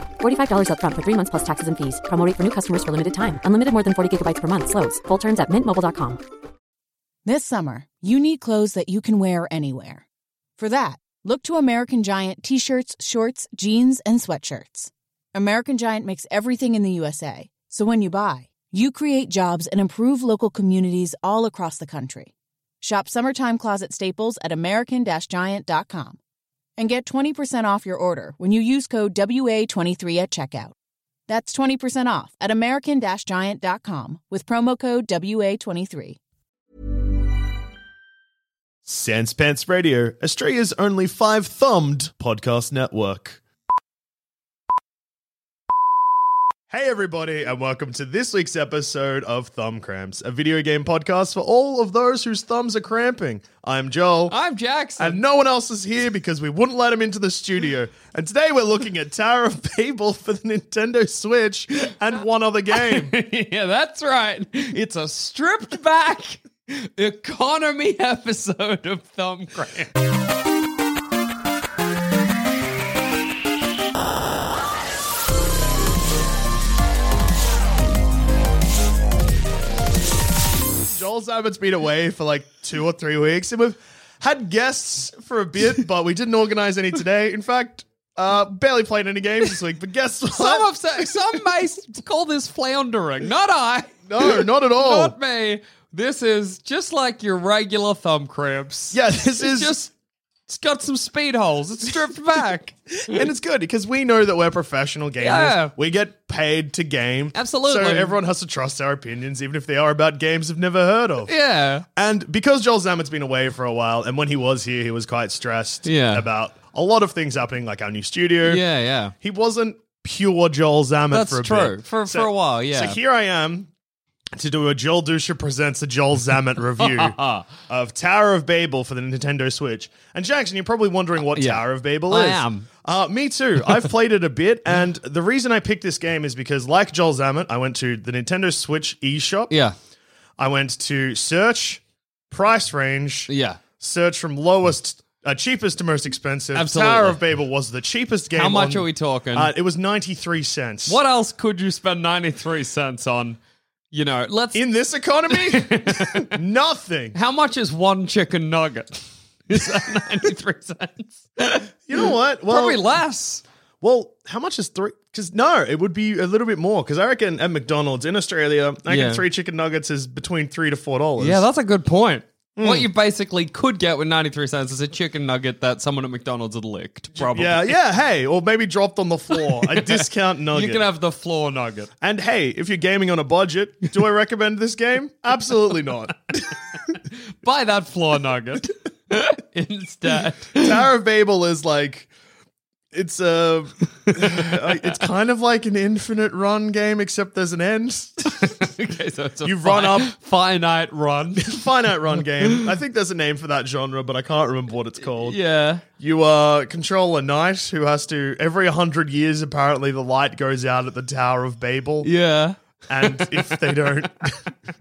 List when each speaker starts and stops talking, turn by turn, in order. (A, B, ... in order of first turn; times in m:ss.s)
0:00.2-0:06.2 A
0:07.2-0:10.0 B
0:10.6-0:26.2 B
0:26.8-0:30.7 B
0:31.3-0:36.2 B
0:38.8-0:43.4 C
0:46.7-0:54.3 C
0:54.3-0:55.2 D
0:55.0-1:03.1 C
1:02.7-1:09.9 D
1:20.9-1:31.1 C
1:30.3-1:39.9 D
1:34.1-1:35.1 C
1:38.9-1:39.8 C
1:40.5-1:43.2 D
1:43.0-1:51.3 C
1:45.2-1:45.7 D
1:47.3-1:48.2 D
1:51.3-1:51.8 D
1:52.0-1:58.6 C
1:55.8-1:56.2 D
1:58.4-1:59.1 D
1:59.2-2:03.7 C
2:01.1-2:03.0 D
2:04.4-2:19.5 C
2:06.8-2:07.5 D
2:11.3-2:12.7 D
2:19.5-2:19.7 D
2:20.4-2:31.0 C
2:23.3-2:23.6 D
2:26.5-2:27.2 D
2:28.3-2:29.5 D
2:30.9-2:33.4 D
2:33.9-2:34.6 D
2:34.5-2:37.2 C
2:35.3-2:36.3 D
2:37.1-2:43.4 D
2:41.9-2:42.8 C
2:43.8-2:51.4 C
2:48.9-2:49.2 D
2:51.2-2:57.8 D
2:52.6-2:52.9 C
2:57.2-3:00.8 C
2:59.3-3:01.9 D
3:02.0-3:06.5 C
3:07.4-3:10.8 D
3:10.6-3:12.1 C
3:12.9-3:18.6 C
3:14.3-3:15.0 D
3:18.3-3:21.6 D
3:19.4-3:20.1 C
3:21.4-3:25.4 C
3:22.2-3:22.7 D
3:25.0-3:25.8 D
3:26.0-3:32.1 C
3:32.0-3:33.8 D
3:32.9-3:34.4 C